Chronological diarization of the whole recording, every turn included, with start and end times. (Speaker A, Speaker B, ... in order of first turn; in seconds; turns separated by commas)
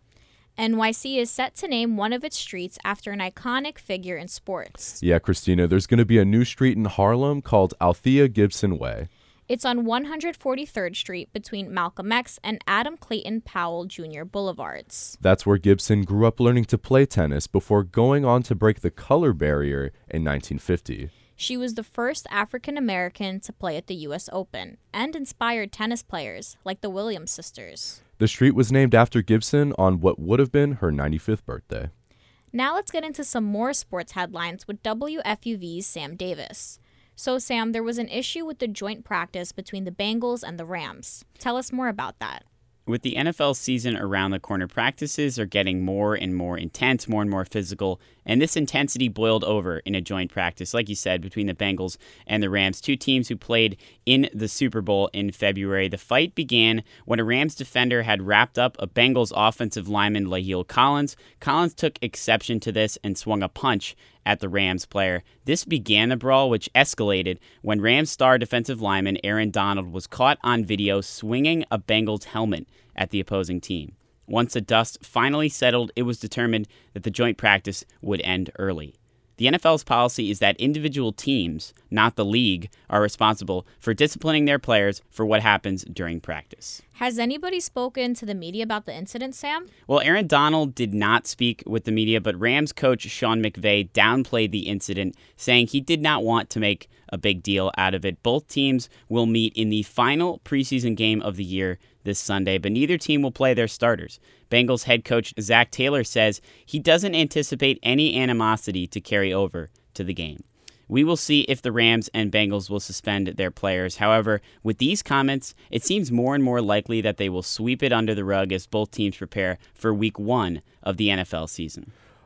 Speaker A: 0.6-4.9, Speaker B: 5.0-9.1, Speaker A: 9.5-15.1, Speaker B: 15.2-21.1, Speaker A: 21.4-28.0, Speaker B: 28.2-31.9, Speaker A: 32.5-42.4, Speaker C: 42.9-86.8, Speaker A: 86.9-89.7, Speaker C: 89.9-121.9